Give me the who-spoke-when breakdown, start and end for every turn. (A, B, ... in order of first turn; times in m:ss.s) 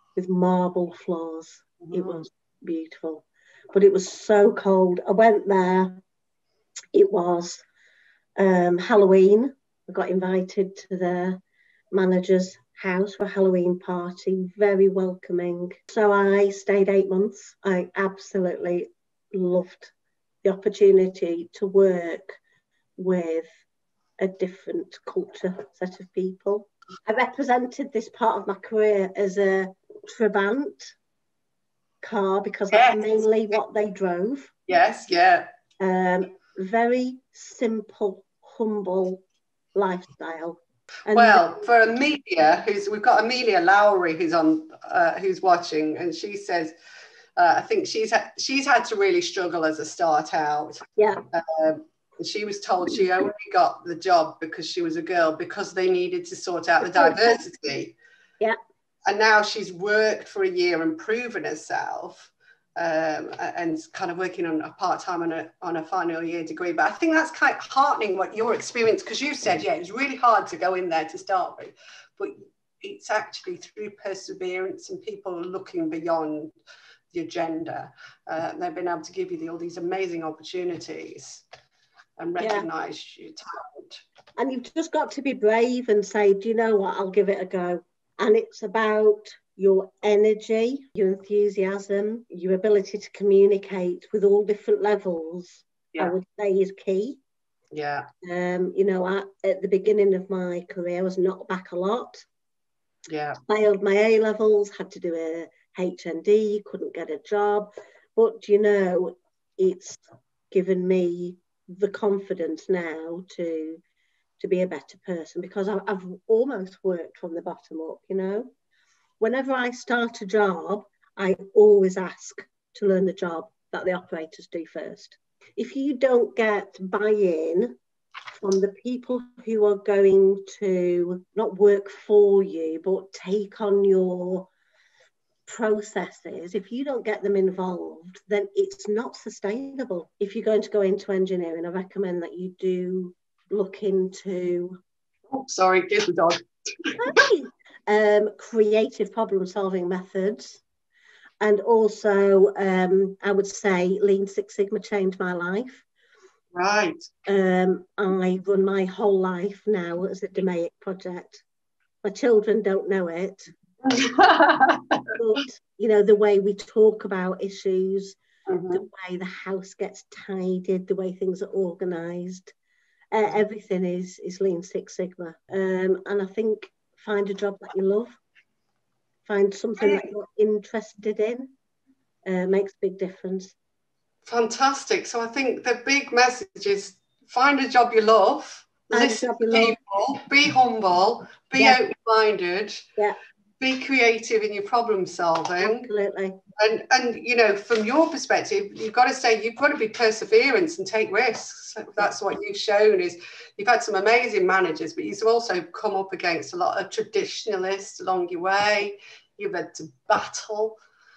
0:00.2-0:06.0 A
0:01.8-0:02.2 B
0:06.9-0:07.6 A
0:08.4-0:11.4 A
0:11.9-0:19.9 A
0:20.4-0:22.4 A
0:23.0-0:23.5 A
0:24.2-0:31.0 A
0:32.0-0:34.5 A
0:32.7-0:33.2 B
0:34.7-0:35.5 B
0:35.8-0:39.2 A
0:39.7-0:41.4 A
0:41.1-0:46.7 B
0:47.4-0:57.9 B
0:51.0-0:51.2 A
0:56.8-0:57.4 A
0:59.1-1:16.5 B
1:17.1-1:21.4 B
1:22.2-1:24.0 B
1:22.4-1:22.7 A
1:24.4-1:37.2 A
1:37.7-1:38.1 B
1:38.2-1:42.2 A
1:43.1-1:43.4 B
1:43.5-1:53.8 A
1:54.4-1:58.5 A
1:59.2-2:07.8 A
2:08.3-2:14.5 A
2:15.5-2:24.8 A
2:25.3-2:27.1 B
2:27.0-2:30.6 A
2:31.4-2:35.8 A
2:36.5-2:37.0 B
2:37.2-2:41.4 A
2:42.0-2:43.5 A
2:43.8-2:45.0 B
2:45.2-2:48.2 A
2:48.5-2:48.8 B
2:48.7-2:52.5 A
2:53.1-2:58.2 A
2:59.3-3:01.5 A
3:02.2-3:03.5 A
3:04.2-3:12.9 B
3:08.9-3:09.8 A
3:13.6-3:15.9 B
3:15.6-3:16.4 A
3:16.6-3:30.8 B